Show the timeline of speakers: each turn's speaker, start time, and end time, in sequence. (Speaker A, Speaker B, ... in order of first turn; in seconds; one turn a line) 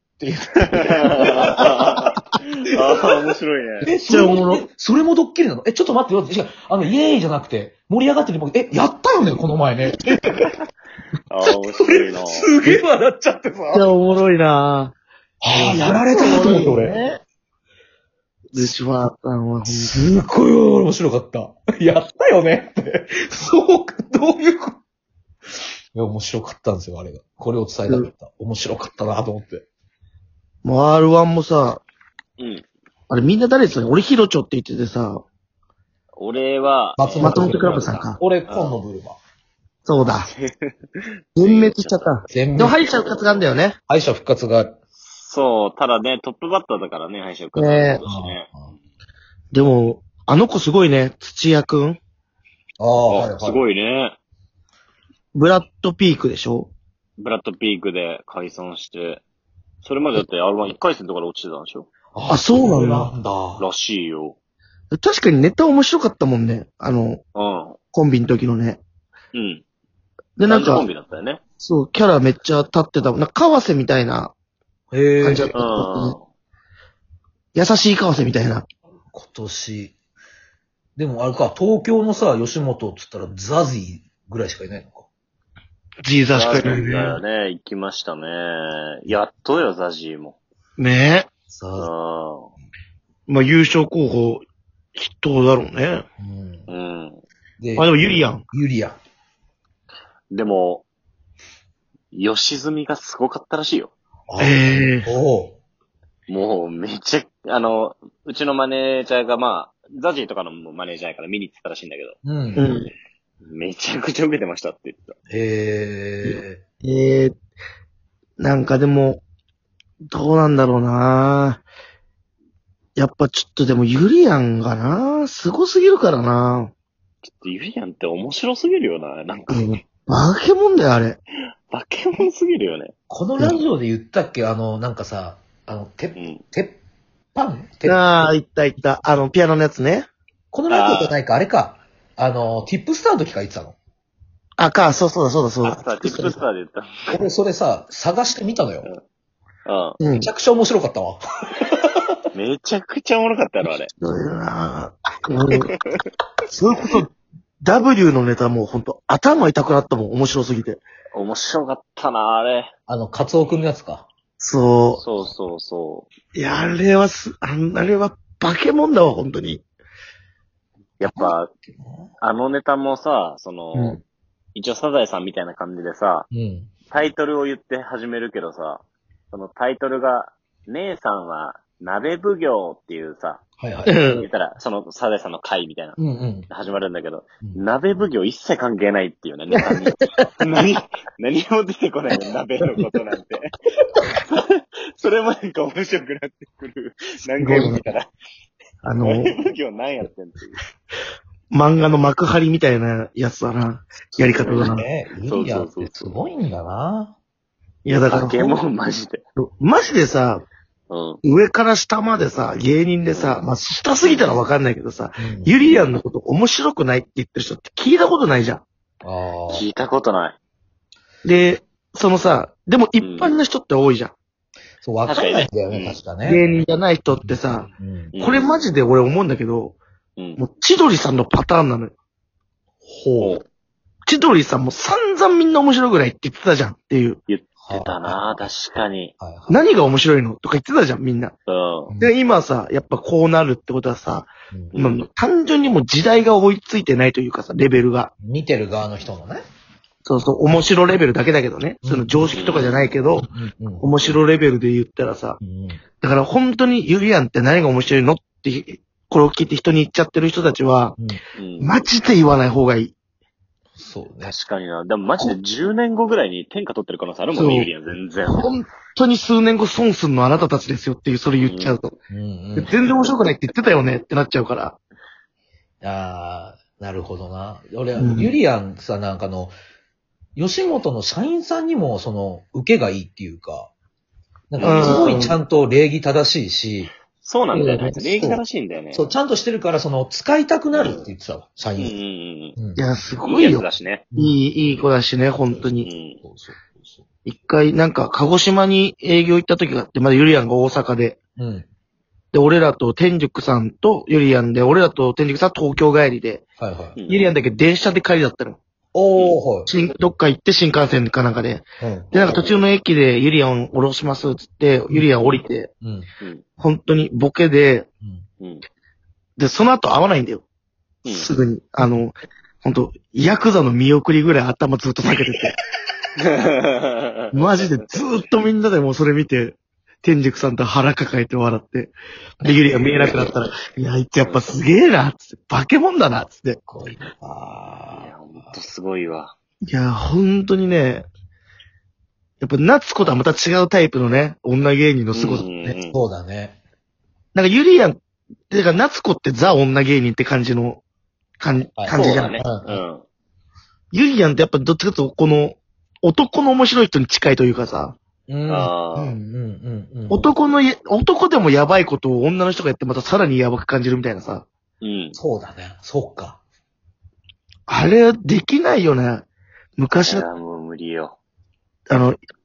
Speaker A: 0.2-2.1
Speaker B: 0.7-3.9
Speaker A: 2.8-3.3
Speaker A: 3.8-10.1
Speaker C: 4.0-4.7
Speaker B: 11.3-12.5
Speaker A: 11.7-13.9
Speaker C: 13.7-14.9
Speaker A: 15.4-17.0
Speaker C: 15.5-17.2
Speaker C: 18.5-20.1
Speaker A: 19.7-24.8
Speaker A: 25.9-29.6
Speaker C: 30.6-31.8
Speaker C: 33.1-35.2
Speaker B: 36.2-38.7
Speaker A: 37.0-39.2
Speaker C: 37.2-38.2
Speaker C: 39.8-40.3
Speaker B: 40.0-40.7
Speaker C: 41.4-43.8
Speaker B: 41.4-42.2
Speaker A: 42.3-42.8
Speaker B: 42.8-43.4
Speaker A: 43.9-44.7
Speaker B: 45.1-48.5
Speaker C: 47.5-48.0
Speaker A: 48.0-48.7
Speaker C: 49.5-52.0
Speaker A: 52.8-53.6
Speaker B: 53.1-54.2
Speaker C: 55.3-56.7
Speaker B: 57.2-59.2
Speaker B: 59.8-61.9
Speaker A: 62.1-63.6
Speaker C: 62.3-63.1
Speaker B: 63.6-64.3
Speaker C: 64.9-67.2
Speaker B: 67.3-67.8
Speaker C: 67.9-68.8
Speaker B: 69.3-69.6
Speaker C: 70.4-70.9
Speaker B: 70.5-71.4
Speaker C: 71.6-74.3
Speaker A: 74.9-75.5
Speaker C: 75.2-76.2
Speaker B: 75.5-76.2
Speaker C: 77.5-78.7
Speaker A: 79.1-79.9
Speaker A: 81.0-85.1
Speaker C: 86.0-87.1
Speaker B: 86.3-90.4
Speaker A: 86.7-87.1
Speaker C: 90.8-91.3
Speaker A: 91.5-91.9
Speaker B: 91.8-92.5
Speaker C: 93.3-94.4
Speaker C: 94.9-96.0
Speaker A: 96.2-96.7
Speaker B: 96.7-97.2
Speaker A: 97.6-99.0
Speaker C: 97.8-98.4
Speaker B: 100.3-100.8
Speaker B: 102.1-103.9
Speaker A: 104.3-105.6
Speaker C: 104.4-105.1
Speaker B: 106.3-112.2
Speaker A: 112.2-112.8
Speaker C: 112.5-112.9
Speaker B: 113.4-115.1
Speaker A: 115.3-116.6
Speaker C: 116.2-117.3
Speaker C: 118.4-119.2
Speaker C: 120.1-121.6
Speaker C: 123.0-126.7
Speaker B: 127.2-129.8
Speaker C: 129.5-131.2
Speaker B: 131.7-132.9
Speaker A: 133.1-136.8
Speaker B: 136.2-136.4
Speaker A: 137.3-138.2
Speaker C: 137.8-140.1
Speaker A: 140.5-143.8
Speaker B: 140.7-141.2
Speaker C: 144.6-146.4
Speaker B: 145.6-146.9
Speaker A: 147.1-148.9
Speaker B: 149.7-150.0
Speaker C: 150.0-150.3
Speaker A: 150.2-152.0
Speaker B: 152.3-153.9
Speaker C: 154.0-155.7
Speaker B: 155.7-156.0
Speaker C: 156.5-157.1
Speaker C: 157.6-160.8
Speaker B: 161.1-162.7
Speaker A: 162.9-164.1
Speaker C: 164.4-165.0
Speaker B: 165.0-166.1
Speaker C: 166.3-169.6
Speaker B: 171.0-171.5
Speaker A: 171.0-172.1
Speaker B: 172.2-174.0
Speaker B: 174.6-176.3
Speaker A: 176.3-176.7
Speaker B: 176.9-183.4
Speaker A: 183.6-183.9
Speaker C: 183.8-184.2
Speaker B: 184.1-193.5
Speaker A: 186.0-186.5
Speaker B: 195.0-198.1
Speaker C: 197.4-197.8
Speaker C: 198.8-199.3
Speaker B: 199.0-200.6
Speaker C: 201.5-204.9
Speaker B: 204.2-206.2
Speaker A: 204.6-207.2
Speaker C: 207.8-208.6
Speaker B: 208.1-209.2
Speaker C: 209.3-210.4
Speaker B: 210.9-211.2
Speaker C: 211.2-218.6
Speaker B: 213.1-213.4
Speaker B: 214.0-214.4
Speaker A: 215.2-215.6
Speaker A: 219.0-219.7
Speaker B: 219.5-220.4
Speaker C: 221.2-224.1
Speaker B: 223.0-223.4
Speaker A: 224.8-226.4
Speaker B: 225.1-226.0
Speaker C: 226.2-229.8
Speaker A: 227.2-228.1
Speaker B: 228.1-228.5
Speaker C: 230.4-231.9
Speaker A: 232.8-233.4
Speaker B: 233.2-233.4
Speaker C: 234.1-237.2
Speaker B: 237.3-239.1
Speaker A: 237.6-238.5
Speaker A: 239.2-239.7
Speaker C: 239.5-241.3
Speaker B: 241.5-241.9
Speaker A: 241.9-242.1
Speaker C: 242.0-248.1
Speaker A: 244.5-244.8
Speaker B: 244.7-245.0
Speaker A: 248.2-249.4
Speaker C: 250.0-253.3
Speaker A: 251.8-252.3
Speaker B: 252.3-252.9
Speaker A: 253.2-253.9
Speaker C: 253.8-255.4
Speaker A: 255.4-255.8
Speaker C: 256.0-260.9
Speaker B: 261.4-261.8
Speaker C: 261.6-262.9
Speaker A: 263.8-264.3
Speaker B: 264.2-268.5
Speaker C: 267.3-267.7
Speaker C: 268.2-271.9
Speaker B: 271.4-271.8
Speaker A: 272.1-272.7
Speaker C: 272.6-274.8
Speaker A: 275.8-279.5
Speaker C: 278.0-278.3
Speaker A: 280.4-283.7
Speaker A: 284.5-286.9
Speaker B: 284.6-285.2
Speaker C: 284.6-285.4
Speaker B: 287.2-289.1
Speaker C: 287.5-288.4
Speaker A: 288.9-292.0
Speaker B: 291.8-292.6
Speaker A: 292.6-292.8
Speaker C: 292.8-295.9
Speaker B: 293.2-294.1
Speaker A: 295.5-297.0
Speaker B: 295.8-296.2
Speaker C: 297.2-301.2
Speaker A: 301.4-301.7
Speaker C: 302.3-306.4
Speaker A: 306.6-307.0
Speaker B: 306.9-307.3
Speaker C: 307.1-308.6
Speaker A: 308.9-309.7
Speaker C: 309.7-315.7
Speaker A: 311.8-312.1
Speaker B: 312.2-312.6
Speaker A: 314.9-316.1
Speaker C: 316.6-317.9
Speaker B: 318.4-318.6
Speaker C: 319.4-320.4
Speaker B: 321.0-321.3
Speaker C: 321.1-325.6
Speaker B: 326.2-327.7
Speaker C: 327.3-336.6
Speaker B: 332.9-333.1
Speaker B: 334.1-334.6
Speaker A: 336.7-338.6
Speaker B: 337.9-339.3
Speaker C: 339.7-341.1
Speaker C: 342.4-345.8
Speaker B: 345.1-346.0
Speaker A: 345.9-346.6
Speaker C: 347.3-348.0
Speaker C: 348.5-350.8
Speaker C: 351.4-352.4
Speaker A: 351.8-352.8
Speaker B: 351.9-353.0
Speaker C: 353.9-357.9
Speaker A: 358.3-358.7
Speaker B: 358.5-359.2
Speaker C: 358.9-359.2
Speaker A: 359.3-360.3
Speaker C: 360.1-364.5
Speaker B: 364.8-365.2
Speaker A: 365.1-366.4
Speaker C: 367.7-369.2
Speaker C: 369.8-370.2
Speaker B: 370.0-371.1
Speaker C: 371.9-372.2